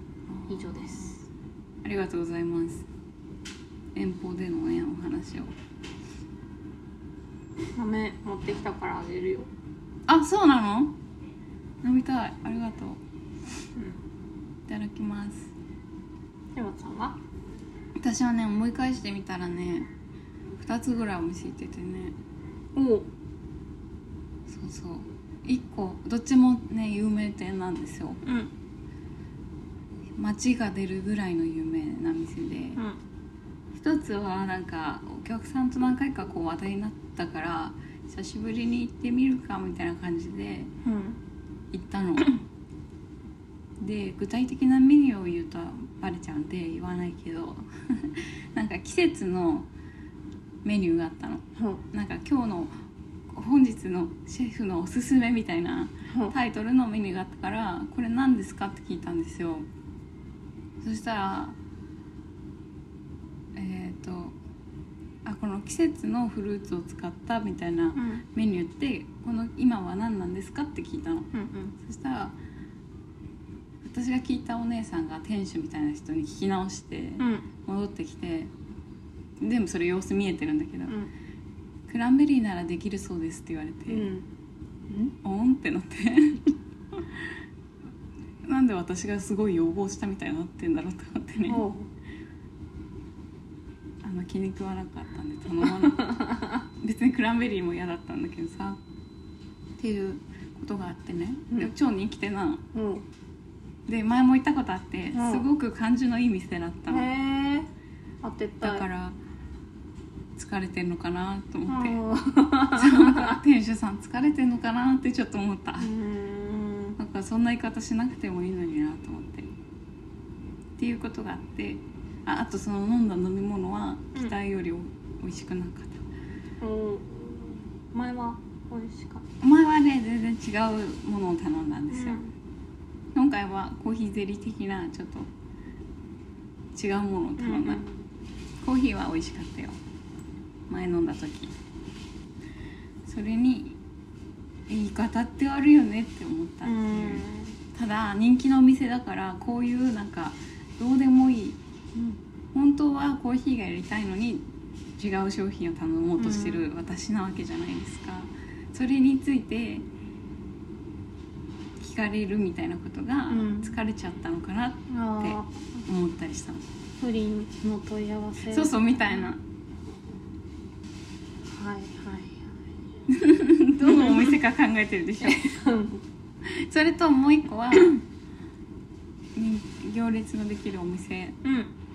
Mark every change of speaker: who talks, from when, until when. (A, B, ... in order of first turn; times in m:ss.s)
0:00.3-0:01.2 A
0:00.5-0:01.2 B
0:01.8-0:02.9 A
0:03.9-0:05.5 A
0:07.7-0:09.5 B
0:10.1-0:10.9 A
0:11.8-0:13.0 A
0:13.7-0:14.0 B
0:14.7-0:15.5 A
0:16.5-0:17.2 B
0:18.0-0:19.9 A
0:20.6-0:22.2 A
0:22.7-0:23.1 B
0:24.5-0:28.2 A
0:28.2-0:28.5 B
0:30.2-0:32.8 A
0:33.7-0:40.7 A
0:40.8-0:41.2 B
0:41.7-0:42.4 A
0:43.8-0:49.7 A
0:50.6-0:52.7 A
0:51.6-0:51.8 B
0:53.3-0:59.7 A
0:56.1-0:56.3 B
1:00.8-1:01.6 A
1:03.5-1:04.4 A
1:05.2-1:12.4 A
1:07.9-1:08.2 B
1:11.3-1:11.8 B
1:13.8-1:18.5 A
1:17.2-1:17.5 B
1:19.4-1:21.0 A
1:21.9-1:24.1 A
1:23.9-1:24.3 B
1:24.9-1:25.1 B
1:25.2-1:27.3 A
1:28.4-1:31.6 A
1:31.4-1:31.9 B
1:34.0-1:36.2 A
1:35.6-1:36.6 B
1:36.8-1:38.8 A
1:39.8-1:42.6 A
1:42.7-1:43.0 B
1:43.8-1:47.0 A
1:45.1-1:45.5 B
1:46.9-1:47.7 B
1:48.2-1:48.9 B
1:48.6-1:49.2 A
1:50.4-1:52.0 A
1:51.7-1:53.4 B
1:52.7-1:55.9 A
1:55.8-1:57.0 B
1:57.0-1:59.5 A
2:00.8-2:06.0 A
2:06.6-2:09.2 B
2:09.4-2:12.2 A
2:11.9-2:12.3 B
2:13.1-2:15.3 A
2:16.7-2:17.8 A
2:17.4-2:18.0 B
2:18.6-2:19.8 A
2:20.7-2:21.5 A
2:23.0-2:23.8 A
2:24.7-2:31.6 A
2:26.6-2:27.6 B
2:32.5-2:39.9 A
2:36.2-2:36.6 B
2:41.8-2:46.6 A
2:43.3-2:43.8 B
2:44.9-2:45.8 B
2:47.0-2:49.3 B
2:48.5-2:49.4 A
2:51.5-2:52.5 B
2:53.1-2:55.5 A
2:53.8-2:54.4 B
2:55.2-2:56.0 B
2:56.4-2:58.0 A
2:59.3-3:01.4 A
3:01.4-3:01.7 B